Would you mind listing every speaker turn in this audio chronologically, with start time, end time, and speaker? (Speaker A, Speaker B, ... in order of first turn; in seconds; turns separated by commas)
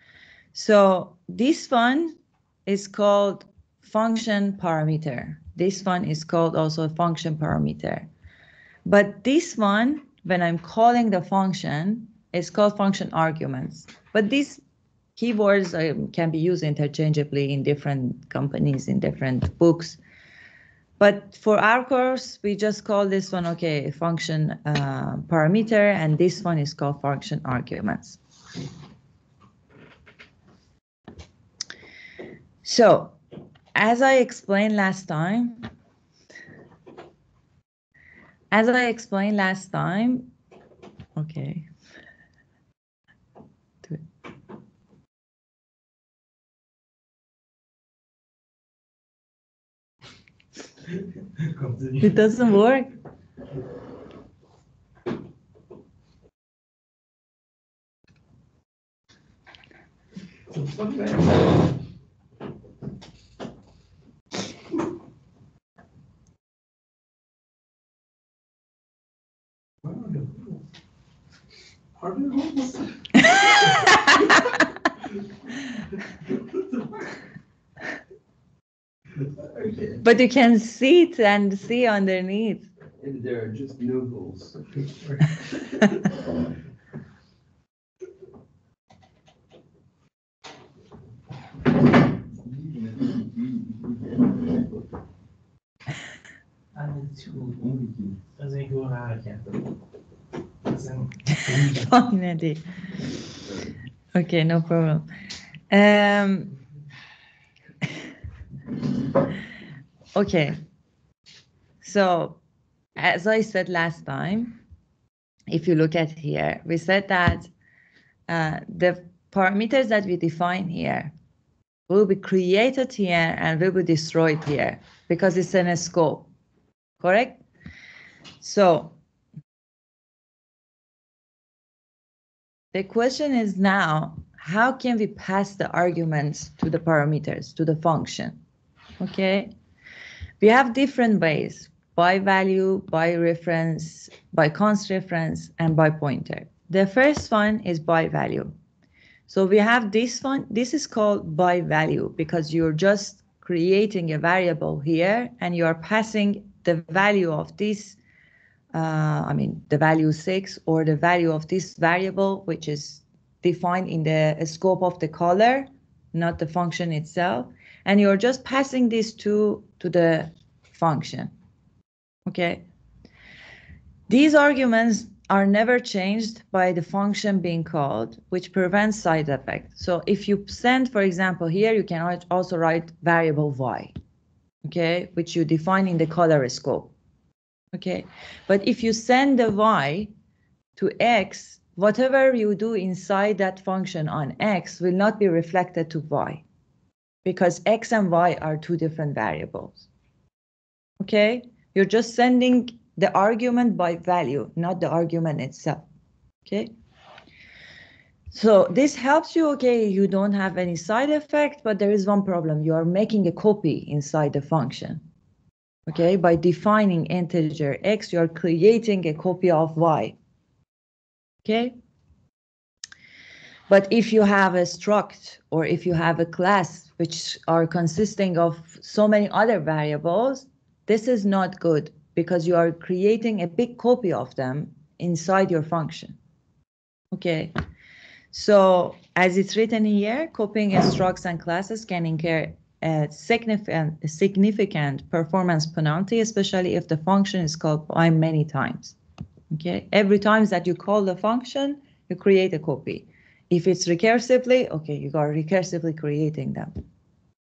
Speaker A: 0.5-8.1, Speaker A: 8.9-14.6, Speaker A: 15.2-20.0, Speaker A: 21.0-28.2, Speaker A: 32.6-33.2, Speaker A: 33.8-35.7, Speaker A: 38.5-40.3, Speaker A: 41.2-41.7, Speaker B: 51.4-52.1, Speaker A: 52.0-52.9, Speaker B: 60.5-61.5, Speaker B: 69.8-70.6, Speaker B: 72.0-74.1, Speaker C: 79.5-80.0, Speaker A: 80.0-82.7, Speaker C: 83.0-84.7, Speaker B: 84.7-85.3, Speaker C: 92.3-94.8, Speaker B: 96.7-97.6, Speaker C: 97.4-98.2, Speaker B: 98.4-99.5, Speaker B: 100.7-101.9, Speaker A: 101.7-102.6, Speaker A: 104.2-105.1, Speaker A: 105.7-106.5, Speaker A: 110.2-110.6, Speaker A: 111.8-112.4, Speaker A: 113.0-114.6, Speaker A: 115.5-117.5, Speaker A: 118.3-121.1, Speaker A: 121.9-126.3, Speaker A: 127.0-127.4, Speaker A: 128.4-128.9, Speaker A: 132.7-138.4, Speaker A: 139.0-139.5, Speaker A: 140.4-148.6, Speaker A: 149.3-158.0, Speaker A: 158.7-171.3, Speaker A: 172.3-172.6, Speaker A: 174.1-183.9, Speaker A: 184.7-186.9, Speaker A: 187.7-190.1, Speaker A: 190.8-196.4, Speaker A: 197.2-199.9, Speaker A: 201.0-205.9, Speaker A: 206.4-206.7, Speaker A: 208.3-215.0, Speaker A: 215.9-220.2, Speaker A: 221.4-221.8, Speaker A: 223.7-236.2, Speaker A: 237.1-237.5, Speaker A: 238.3-249.0, Speaker A: 249.5-256.7